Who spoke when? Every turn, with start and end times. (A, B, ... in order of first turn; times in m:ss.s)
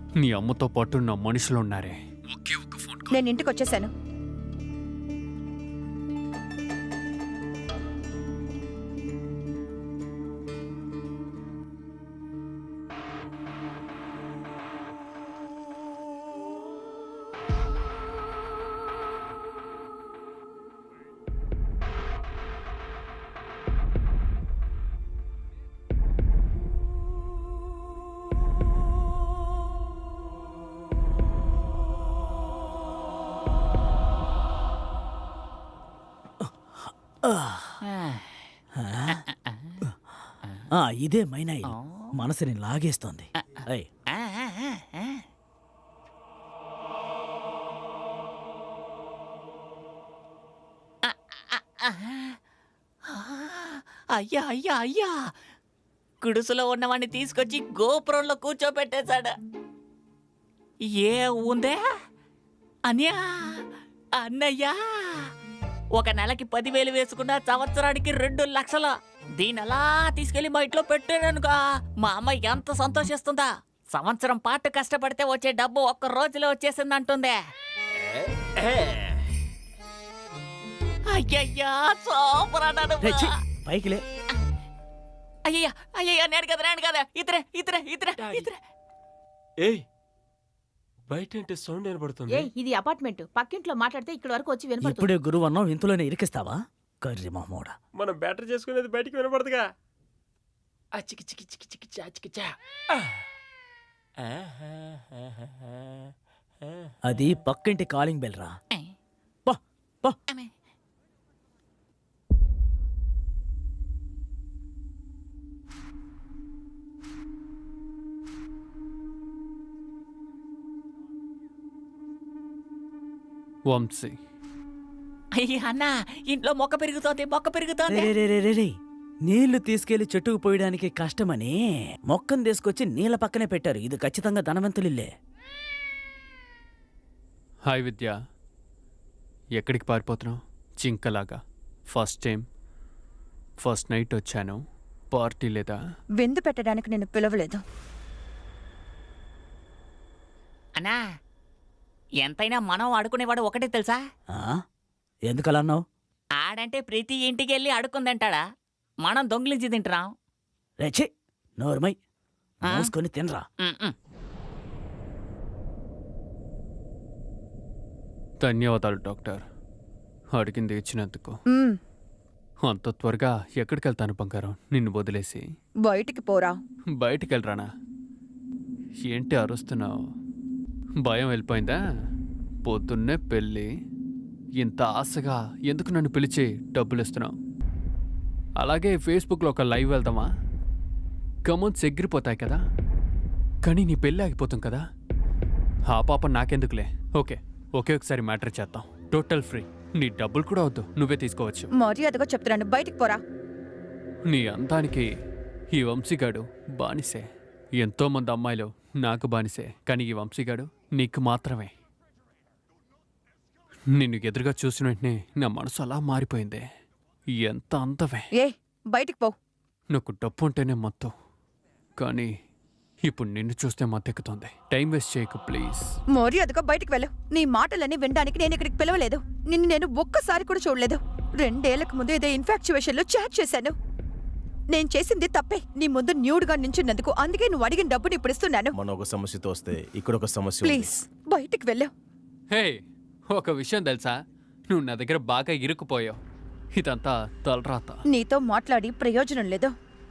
0:00.2-0:03.2 A
0:03.1-0:03.9 B
0:36.4-0:37.8 C
0:37.9-0:38.4 D
0:38.8-0:39.2 C
0:39.1-0:39.8 D
0:40.7-0:43.9 C
0:41.7-0:42.1 D
0:43.4-0:45.2 D
0:51.0-0:52.4 D
0:53.1-0:55.3 D
0:56.2-0:59.4 D
1:01.0-1:01.8 D
1:02.9-1:05.3 D
1:06.0-1:17.4 D
1:21.2-1:23.3 D
1:23.0-1:24.0 C
1:25.5-1:28.6 D
1:28.2-1:28.5 E
1:29.6-1:29.8 E
1:31.1-1:32.4 E
1:32.3-1:35.1 F
1:34.8-1:37.8 C
1:37.9-1:39.7 E
1:40.9-1:42.5 E
1:47.1-1:48.6 C
1:49.5-1:50.2 C
2:03.7-2:04.2 A
2:05.4-2:08.1 D
2:07.9-2:15.1 C
2:17.7-2:18.1 A
2:19.6-2:22.4 A
2:23.6-2:25.8 A
2:26.2-2:27.6 B
2:32.2-2:34.0 D
2:34.3-2:34.6 C
2:35.3-2:35.8 C
2:36.4-2:38.4 D
2:39.0-2:40.1 D
2:40.8-2:42.0 C
2:42.6-2:43.4 C
2:43.6-2:43.9 D
2:48.4-2:49.4 A
2:50.4-2:51.4 A
2:51.5-2:51.8 B
2:52.7-2:55.4 A
2:55.9-2:56.6 B
2:57.0-2:57.7 A
2:59.1-2:59.9 A
3:01.0-3:01.8 A
3:02.7-3:03.7 A
3:04.6-3:07.3 A
3:08.6-3:10.3 A
3:11.5-3:12.6 A
3:13.7-3:14.8 A
3:15.9-3:21.7 A
3:21.8-3:23.2 B
3:24.3-3:25.1 A
3:25.7-3:27.2 A
3:27.8-3:31.7 A
3:34.0-3:36.6 A
3:37.4-3:38.3 A
3:38.4-3:39.4 B
3:39.9-3:41.1 A
3:42.0-3:42.3 A
3:43.1-3:45.8 A
3:46.2-3:53.8 B
3:54.7-3:58.8 B
3:58.7-4:00.9 G
4:00.6-4:01.9 B
4:02.5-4:04.2 A
4:04.7-4:06.2 A
4:06.8-4:08.0 A
4:08.1-4:09.7 B